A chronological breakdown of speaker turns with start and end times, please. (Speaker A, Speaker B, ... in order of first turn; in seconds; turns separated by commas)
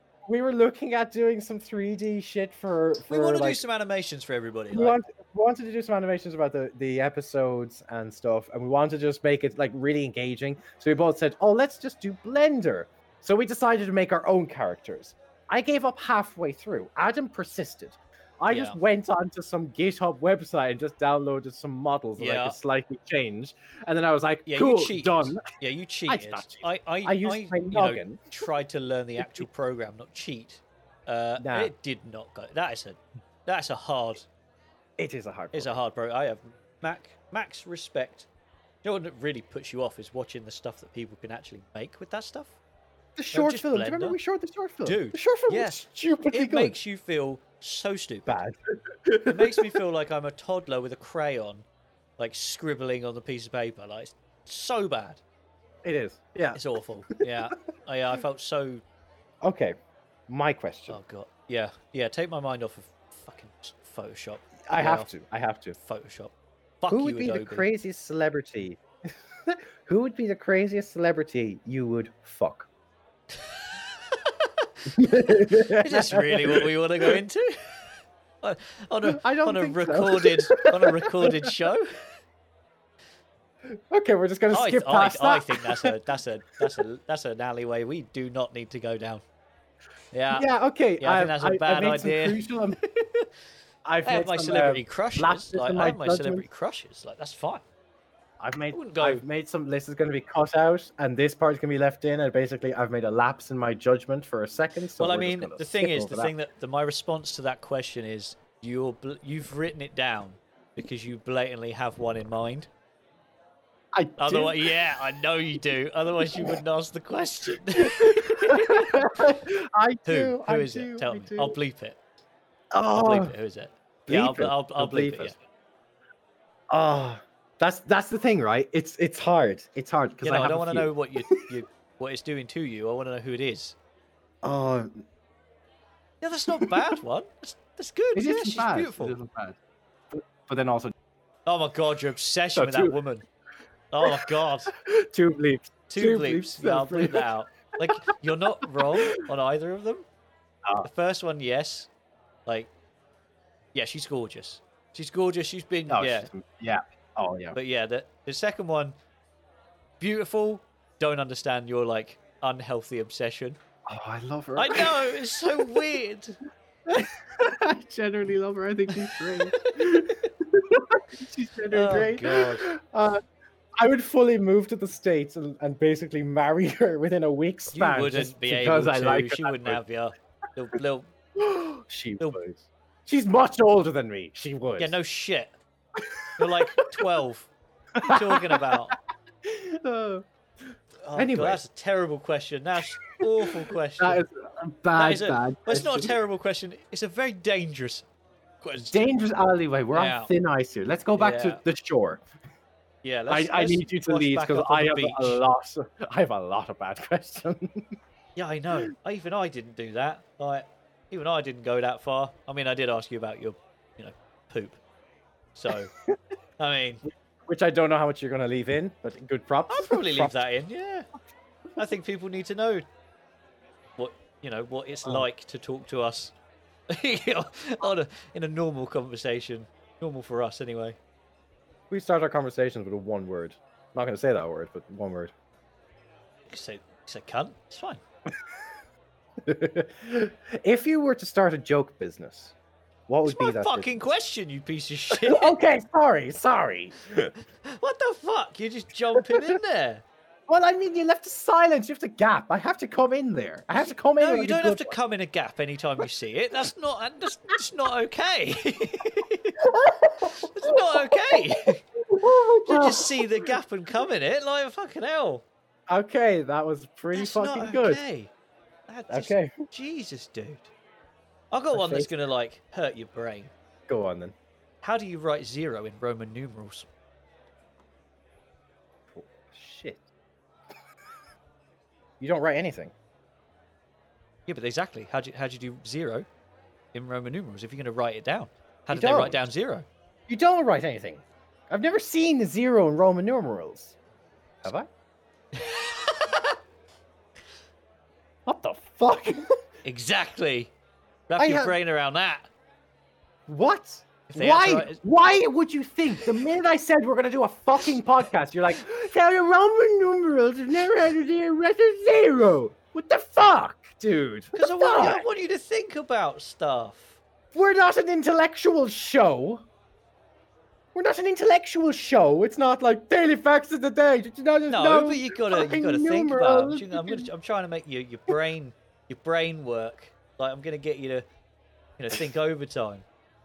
Speaker A: 0.2-3.6, Speaker B: 3.1-5.0, Speaker A: 4.7-25.4, Speaker B: 18.5-18.8, Speaker B: 22.2-22.6, Speaker B: 24.5-34.3, Speaker A: 26.1-28.2, Speaker A: 29.2-29.4, Speaker A: 31.4-31.7, Speaker A: 35.0-35.8, Speaker B: 35.5-38.3, Speaker B: 38.8-42.6, Speaker A: 43.1-46.8, Speaker B: 43.3-44.2, Speaker B: 44.8-48.4, Speaker A: 48.3-49.7, Speaker B: 49.2-51.6, Speaker B: 52.2-55.2, Speaker A: 55.8-56.6, Speaker B: 56.5-58.8, Speaker A: 59.4-59.8, Speaker A: 60.3-61.0, Speaker B: 60.9-65.1, Speaker A: 64.7-65.8, Speaker B: 65.8-67.7, Speaker A: 66.9-68.8, Speaker A: 69.5-72.7, Speaker B: 73.3-77.8, Speaker A: 74.9-77.2, Speaker B: 78.4-81.9, Speaker A: 79.0-81.5, Speaker A: 83.7-85.9, Speaker B: 84.5-89.2, Speaker B: 90.1-90.5, Speaker A: 90.3-92.8, Speaker B: 91.0-93.3, Speaker A: 93.8-96.4, Speaker B: 94.0-97.6, Speaker A: 98.4-106.3, Speaker B: 98.7-99.2, Speaker B: 105.0-112.7, Speaker A: 113.9-114.8, Speaker B: 114.2-119.1, Speaker A: 116.3-116.6, Speaker A: 117.7-121.5, Speaker B: 120.0-122.0, Speaker A: 122.7-123.3, Speaker B: 122.9-125.3, Speaker A: 124.1-125.4, Speaker A: 126.7-131.5, Speaker B: 130.2-133.8, Speaker A: 134.4-135.1, Speaker B: 136.2-139.1, Speaker A: 136.5-137.0, Speaker A: 138.1-139.6, Speaker A: 140.1-140.9, Speaker B: 141.4-143.2, Speaker A: 142.6-143.0, Speaker B: 143.9-144.7, Speaker A: 144.0-147.3, Speaker B: 145.9-150.1, Speaker A: 147.8-148.1, Speaker B: 150.8-151.9, Speaker B: 152.4-152.7, Speaker B: 153.7-156.3, Speaker A: 155.9-157.6, Speaker B: 157.5-158.9, Speaker B: 160.0-163.6, Speaker A: 163.9-165.9, Speaker B: 164.6-166.4, Speaker A: 166.9-173.2, Speaker B: 171.7-172.7, Speaker A: 173.8-179.8, Speaker B: 177.7-181.1, Speaker A: 181.3-184.9, Speaker B: 184.8-185.6, Speaker A: 185.9-187.0, Speaker B: 186.4-188.9, Speaker A: 188.0-188.8, Speaker A: 189.4-190.2, Speaker B: 191.0-194.2, Speaker A: 191.1-191.6, Speaker A: 193.0-196.1, Speaker B: 194.9-198.1, Speaker B: 198.6-199.1, Speaker A: 198.8-202.2, Speaker B: 199.9-200.3, Speaker B: 201.2-201.6, Speaker B: 203.0-205.4, Speaker A: 203.3-207.9, Speaker B: 208.3-214.8, Speaker B: 215.5-215.9, Speaker A: 215.7-216.2, Speaker B: 216.6-217.0, Speaker A: 217.4-220.4, Speaker B: 219.7-221.1, Speaker B: 221.8-222.8, Speaker B: 224.0-226.3, Speaker B: 226.9-231.0, Speaker A: 231.9-235.3, Speaker B: 236.5-238.0, Speaker A: 239.4-242.5, Speaker A: 243.1-243.9, Speaker B: 243.2-245.6, Speaker A: 245.1-247.3, Speaker B: 247.6-250.0, Speaker A: 249.2-249.5, Speaker A: 250.5-254.9, Speaker B: 254.2-259.6, Speaker A: 259.6-263.5, Speaker B: 260.2-261.8, Speaker B: 262.6-265.4, Speaker A: 265.9-268.0, Speaker B: 267.1-268.3, Speaker B: 268.9-270.7, Speaker A: 269.1-269.5, Speaker B: 271.5-273.5, Speaker A: 271.7-272.1, Speaker A: 273.9-274.3, Speaker B: 274.8-276.9, Speaker A: 279.1-280.0, Speaker A: 282.2-282.9, Speaker B: 284.5-286.3, Speaker B: 286.9-289.9, Speaker A: 288.9-289.4, Speaker A: 290.3-293.9, Speaker A: 294.6-294.9, Speaker B: 295.5-296.6, Speaker A: 298.4-299.5, Speaker B: 299.8-300.7, Speaker B: 301.3-302.5, Speaker A: 301.4-301.8, Speaker A: 303.5-315.2, Speaker B: 304.3-305.0, Speaker B: 314.5-317.2, Speaker A: 317.5-319.6, Speaker A: 320.9-327.3, Speaker B: 324.7-331.2, Speaker B: 332.0-333.0